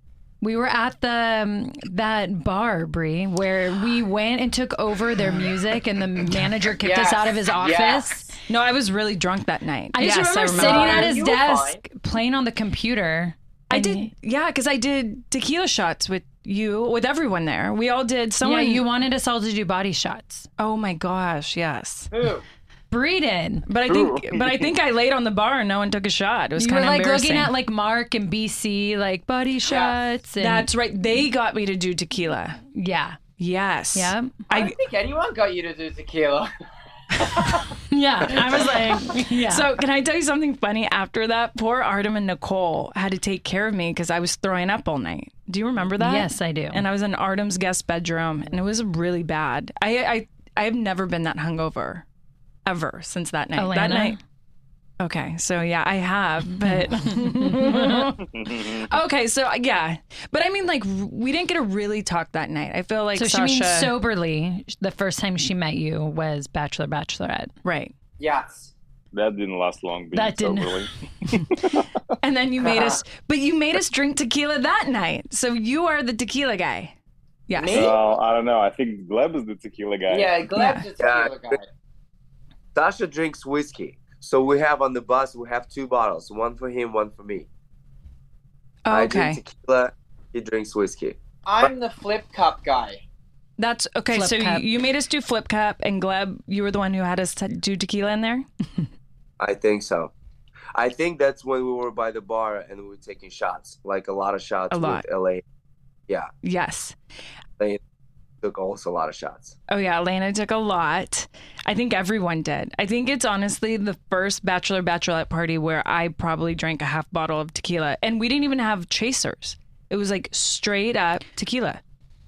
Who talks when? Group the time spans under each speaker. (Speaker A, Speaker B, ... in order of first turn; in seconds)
Speaker A: 0.4-8.3, 9.9-14.1, 18.4-20.5, 22.9-23.6, 26.6-30.7, 32.7-33.2, 33.9-34.4, 37.9-39.7, 46.0-46.8, 53.5-54.2, 56.6-58.0, 63.1-67.5, 70.1-70.9, 94.1-94.6
Speaker B: 6.8-8.2, 10.5-11.8, 22.1-22.4, 29.7-29.9, 34.5-36.5, 37.1-37.7, 68.2-68.7, 72.6-73.0, 77.5-78.0, 80.1-81.7, 91.4-93.0
Speaker C: 8.5-11.1, 13.7-18.8, 20.6-22.1, 23.7-27.5, 30.4-32.6, 33.4-34.7, 39.1-52.0, 52.6-54.2, 55.0-63.9, 67.6-67.9, 72.2-77.0, 77.5-77.9, 80.5-80.8, 88.8-89.4, 93.6-98.5, 104.7-105.0, 106.4-107.0, 109.7-121.8
Speaker D: 23.9-24.6, 58.3-58.9, 69.1-71.8, 77.7-80.4
Speaker E: 81.0-81.5, 82.7-87.5, 88.9-91.7, 99.4-100.1, 100.7-105.4, 108.4-109.5